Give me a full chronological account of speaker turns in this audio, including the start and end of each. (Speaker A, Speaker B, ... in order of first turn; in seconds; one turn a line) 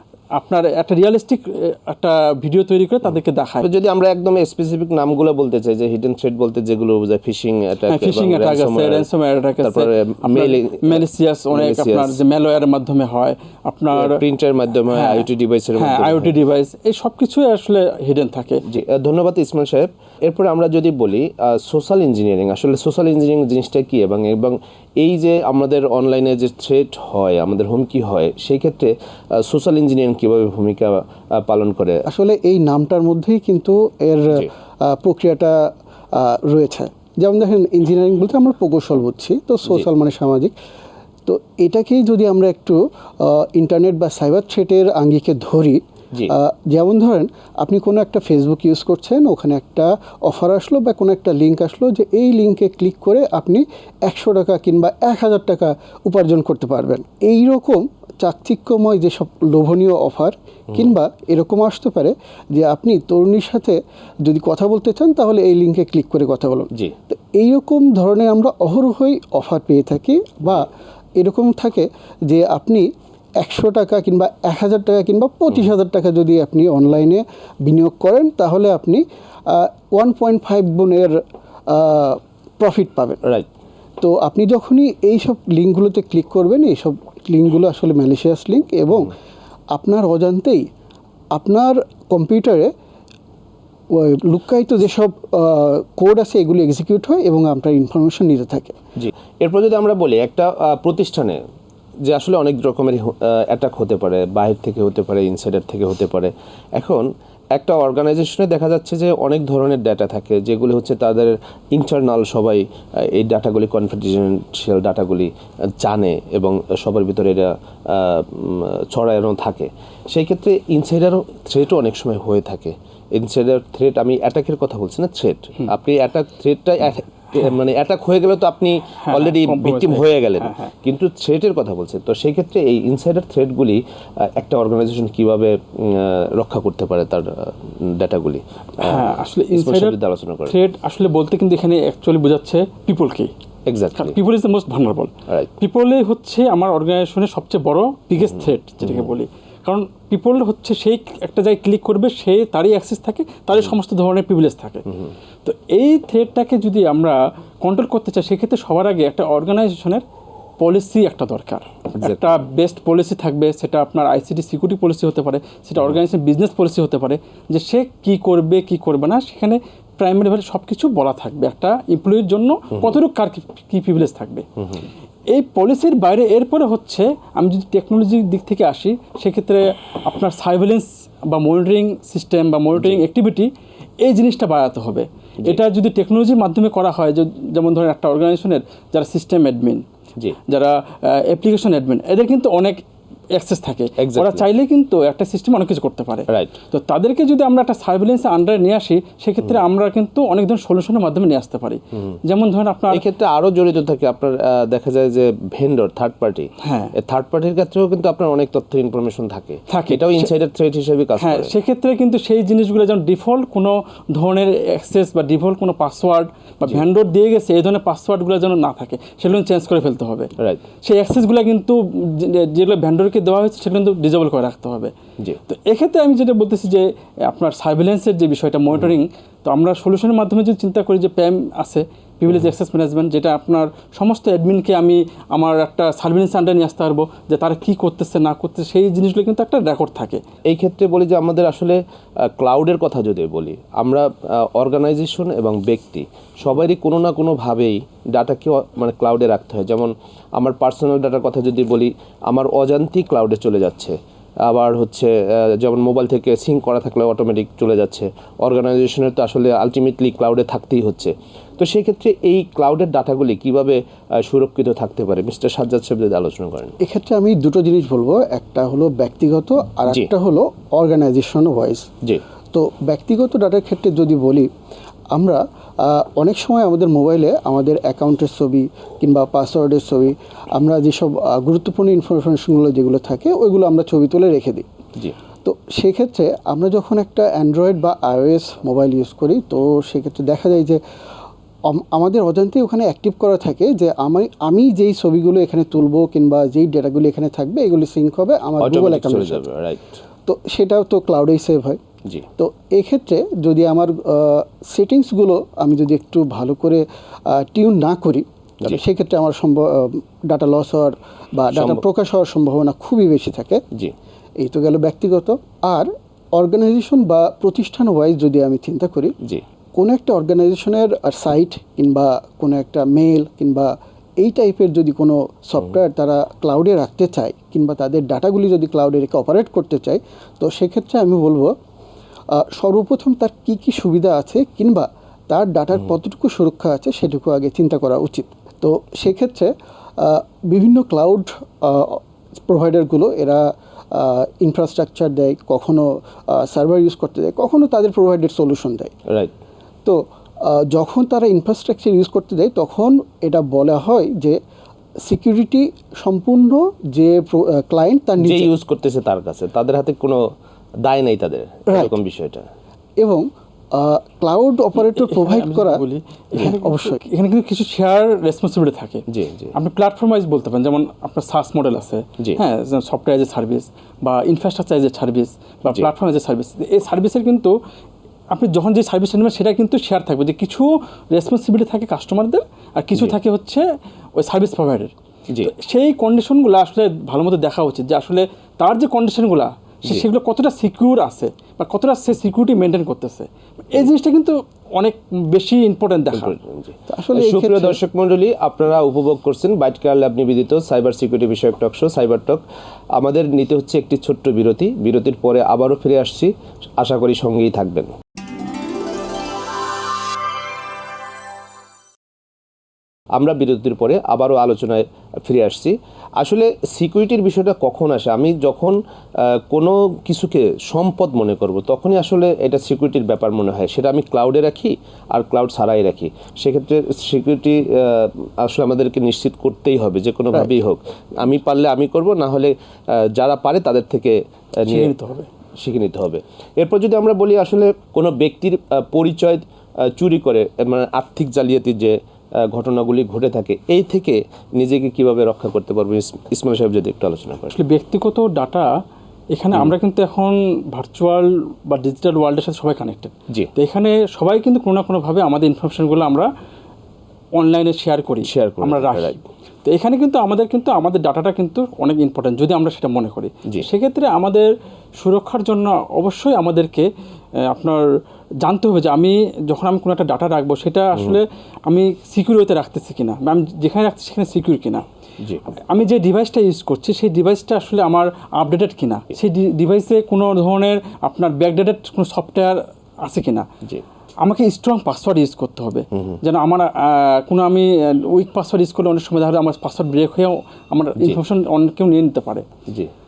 Speaker A: 0.3-3.7
Speaker B: 3.6-9.1
Speaker A: 7.9-14.2
Speaker B: 9.6-12.2
Speaker B: 13.9-16.3
Speaker A: 14.9-18.6
Speaker B: 18.7-32.0
Speaker C: 32.1-40.5
Speaker C: 41.2-83.2
Speaker C: 84.0-89.2
Speaker C: 89.7-90.7
Speaker C: 91.3-92.7
Speaker C: 93.9-98.8
Speaker B: 99.0-101.4
Speaker B: 102.0-140.5
Speaker A: 129.0-130.7
Speaker A: 138.8-140.0
Speaker A: 140.5-143.3
Speaker B: 143.7-144.2
Speaker A: 144.0-154.9
Speaker B: 148.2-149.1
Speaker A: 155.4-160.0
Speaker A: 160.6-174.5
Speaker B: 162.0-162.4
Speaker B: 174.6-174.8
Speaker A: 175.3-183.5
Speaker B: 182.8-183.0
Speaker A: 184.0-189.8
Speaker A: 190.5-192.8
Speaker A: 193.3-203.0
Speaker B: 194.0-194.4
Speaker B: 202.9-211.5
Speaker A: 206.6-206.9
Speaker A: 209.7-210.3
Speaker A: 211.2-224.9
Speaker A: 225.5-240.2
Speaker B: 240.5-266.7
Speaker C: 266.8-271.9
Speaker C: 272.5-274.5
Speaker C: 275.1-284.7
Speaker C: 285.4-290.8
Speaker C: 291.7-299.4
Speaker B: 298.6-300.0
Speaker C: 300.3-301.8
Speaker C: 302.4-313.6
Speaker B: 311.5-311.8
Speaker C: 314.4-319.1
Speaker C: 319.8-331.6
Speaker C: 332.3-348.9
Speaker B: 349.1-349.3
Speaker C: 349.9-354.4
Speaker C: 355.0-358.5
Speaker B: 358.2-360.3
Speaker B: 360.8-362.5
Speaker C: 361.7-361.9
Speaker C: 363.0-365.8
Speaker A: 364.8-377.6
Speaker C: 366.4-367.0
Speaker B: 369.1-369.5
Speaker A: 378.3-383.6
Speaker A: 384.2-396.4
Speaker B: 396.1-402.4
Speaker C: 396.9-397.8
Speaker B: 402.9-407.9
Speaker B: 413.1-434.9
Speaker A: 434.7-435.3
Speaker B: 435.6-447.6
Speaker A: 447.5-448.8
Speaker A: 449.3-456.3
Speaker A: 457.4-467.9
Speaker B: 458.2-459.2
Speaker A: 468.4-474.9
Speaker A: 475.7-483.5
Speaker A: 484.2-492.5